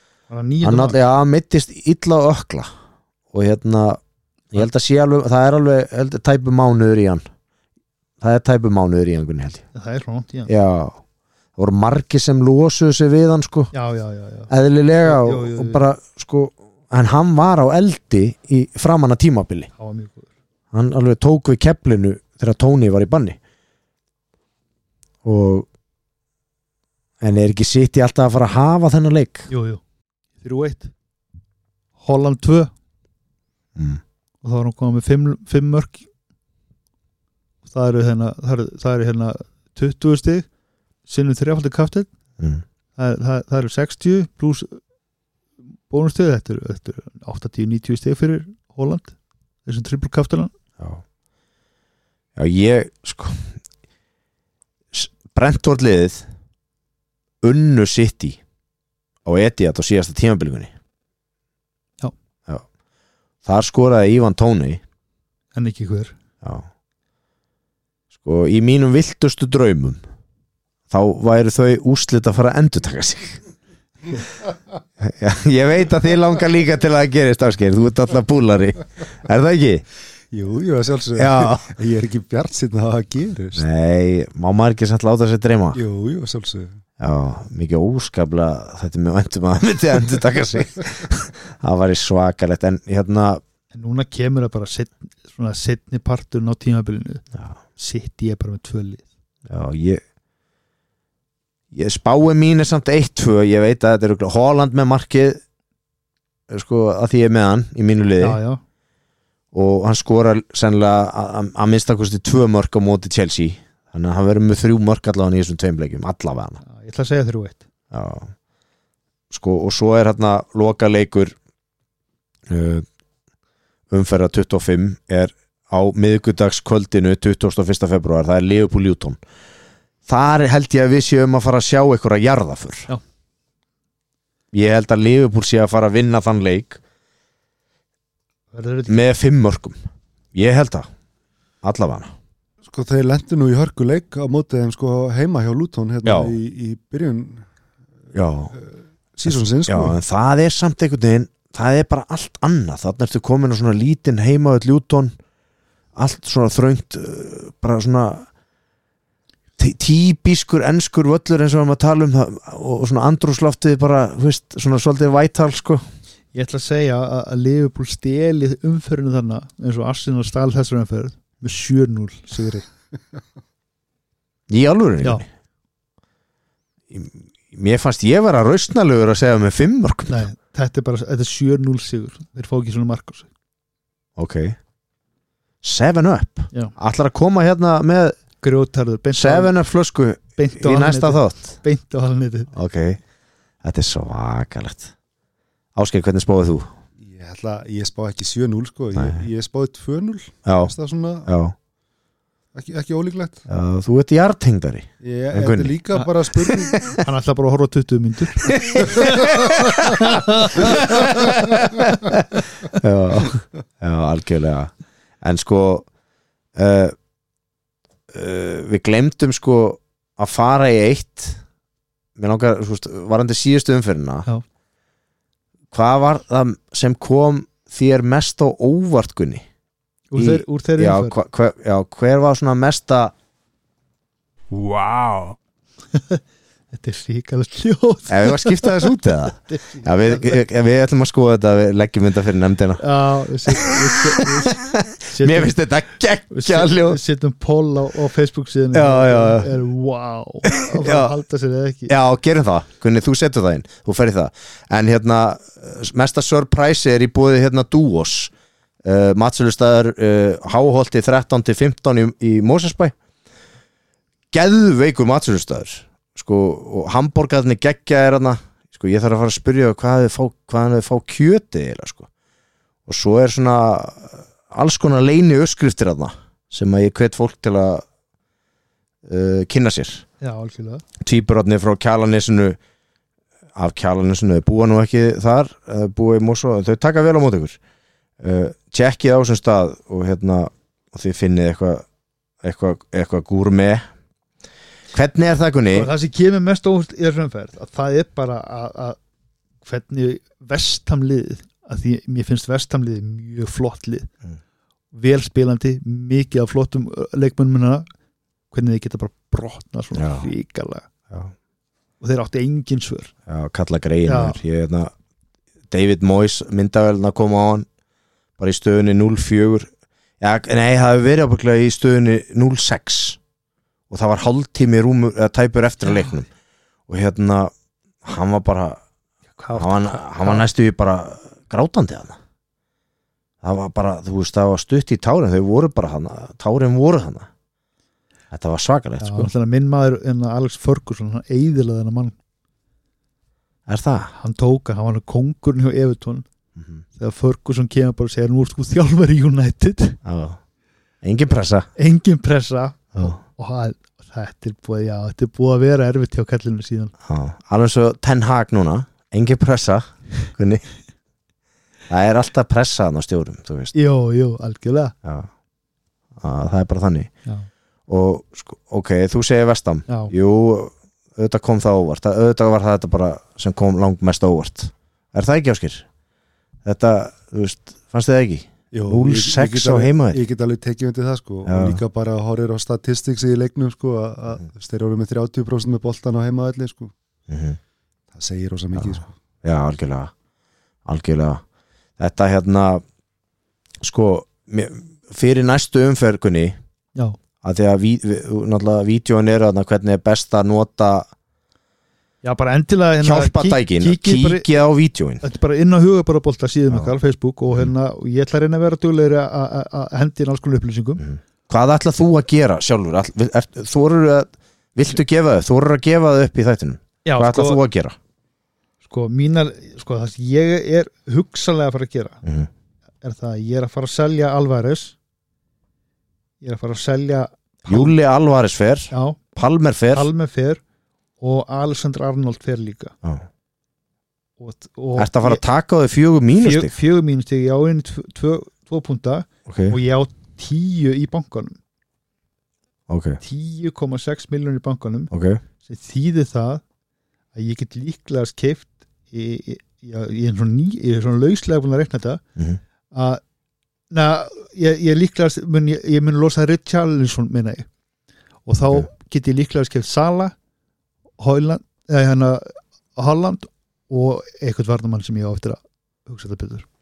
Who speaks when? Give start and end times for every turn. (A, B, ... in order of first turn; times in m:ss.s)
0:00.3-0:01.0 A
0:00.6-0:02.7 B
0:03.3-0:04.0 B
0:04.5-0:07.2 B
0:08.2-0:09.6 B
0:09.7-0:10.5 A
0:10.5-0:11.0 B
0:11.6-0:13.7 B
0:13.7-0:14.5 A
0:14.5-0:19.7 B
0:15.0-0:15.8 A
0:19.8-0:20.3 A
0:20.7-0:23.4 B
0:25.2-0:25.6 B
0:27.2-0:29.5 B
0:29.5-0:29.8 A
0:30.4-0:30.9 A
0:32.0-0:32.7 A
0:34.4-0:36.0 A
0:37.6-0:40.5 A
0:41.1-0:42.1 A
0:43.0-0:44.8 A
0:45.9-0:49.1 A
0:49.6-0:50.5 A
0:52.4-0:53.5 B
0:54.9-0:56.2 B
0:57.4-0:58.4 B
0:59.2-1:00.7 B
1:03.4-1:04.8 B
1:05.5-1:06.1 A
1:08.2-1:10.0 B
1:10.9-1:13.4 B
1:15.0-1:19.8 B
1:20.3-1:23.6 C
1:21.2-1:21.7 B
1:23.6-1:25.8 B
1:25.7-1:26.8 C
1:27.0-1:33.4 B
1:33.7-1:37.2 A
1:37.8-1:39.1 A
1:39.5-1:40.0 B
1:41.7-1:45.4 B
1:46.5-1:48.4 B
1:48.2-1:48.6 A
1:49.5-1:56.6 B
1:56.6-1:57.6 A
1:57.9-1:58.3 B
1:59.3-2:01.3 B
2:02.5-2:02.8 B
2:03.9-2:09.2 B
2:10.1-2:12.9 B
2:14.5-2:16.8 B
2:18.5-2:19.1 A
2:18.9-2:19.8 B
2:20.3-2:20.9 B
2:21.6-2:22.1 B
2:22.6-2:27.5 C
2:26.0-2:26.3 B
2:28.1-2:28.5 B
2:28.6-2:30.0 C
2:29.2-2:35.1 B
2:35.9-2:38.3 B
2:39.6-2:45.8 B
2:46.3-2:52.6 A
2:54.5-2:55.2 B
2:56.9-3:00.2 B
3:00.1-3:03.3 A
3:04.2-3:04.6 B
3:05.6-3:08.2 B
3:08.4-3:09.5 A
3:09.2-3:11.6 B
3:10.4-3:12.5 A
3:12.5-3:13.0 B
3:13.6-3:14.9 B
3:15.8-3:16.7 B
3:17.0-3:21.3 C
3:19.0-3:19.2 B
3:20.4-3:20.7 B
3:21.2-3:21.5 B
3:22.5-3:23.4 C
3:23.5-3:25.7 B
3:25.0-3:26.8 C
3:26.4-3:27.0 B
3:27.0-3:31.3 A
3:28.4-3:30.0 B
3:30.5-3:34.7 B
3:35.2-3:35.8 B
3:36.6-3:36.9 B
3:38.1-3:41.4 B
3:42.2-3:44.3 B
3:45.7-3:49.4 B
3:50.1-3:51.1 A
3:50.2-3:53.1 B
3:54.5-3:55.4 B
3:55.9-3:58.8 A
3:58.1-4:02.8 B
3:59.4-4:00.4 A
4:02.8-4:05.5 A
4:03.5-4:03.7 B
4:04.4-4:07.0 B
4:06.3-4:11.9 A
4:08.7-4:09.5 B
4:10.4-4:11.1 B
4:11.9-4:18.3 B
4:18.8-4:22.9 B
4:24.3-4:32.1 B
4:32.9-4:37.8 B
4:39.0-4:40.0 B
4:40.2-4:40.8 A
4:41.0-4:42.6 B
4:43.6-4:47.6 B
4:48.2-4:51.8 B
4:52.4-4:53.8 B
4:54.9-4:55.9 B
4:55.7-4:59.0 A
4:59.6-5:04.1 A
5:04.9-5:07.9 A
5:08.5-5:10.9 A
5:09.9-5:10.3 B
5:12.0-5:13.1 A
5:13.3-5:14.9 B
5:14.0-5:14.4 A
5:15.7-5:17.6 B
5:18.4-5:19.7 B
5:20.2-5:23.2 B
5:23.9-5:26.3 B
5:26.9-5:27.5 B
5:28.0-5:28.8 B
5:29.4-5:30.4 A
5:29.5-5:32.2 B
5:33.4-5:37.3 B
5:38.3-5:39.3 B
5:39.0-5:42.1 A
5:43.7-5:44.1 B
5:44.1-5:46.2 A
5:46.6-5:46.8 B
5:46.9-5:50.0 A
5:50.0-5:50.4 B
5:51.0-5:51.7 B
5:51.8-5:56.9 A
5:57.0-6:00.6 B
6:01.9-6:03.7 B
6:03.7-6:04.9 A
6:06.2-6:07.1 B
6:07.9-6:15.8 B
6:09.9-6:10.1 A
6:16.6-6:20.2 B
6:18.7-6:26.9 C
6:21.4-6:21.8 B
6:27.3-6:27.6 B
6:28.1-6:29.1 C
6:28.8-6:30.1 B
6:30.8-6:31.4 B
6:32.0-6:32.8 B
6:33.8-6:36.6 B
6:37.4-6:41.1 B
6:42.2-6:44.4 A
6:43.0-6:45.2 B
6:45.2-6:51.0 A
6:51.0-6:58.0 B
6:57.0-6:57.6 A
6:58.8-7:02.2 A
7:02.2-7:02.5 B
7:03.0-7:04.9 A
7:06.4-7:07.9 A
7:07.7-7:10.1 B
7:08.9-7:09.2 A
7:09.9-7:10.6 A
7:11.2-7:12.9 A
7:14.4-7:15.4 A
7:15.0-7:16.8 B
7:16.4-7:21.6 A
7:19.5-7:19.8 B
7:22.9-7:23.2 B
7:23.2-7:25.1 A
7:25.1-7:25.4 B
7:25.6-7:26.6 A
7:27.3-7:32.2 A
7:32.9-7:33.2 A
7:33.9-7:37.7 A
7:38.4-7:40.3 A
7:41.2-7:46.6 A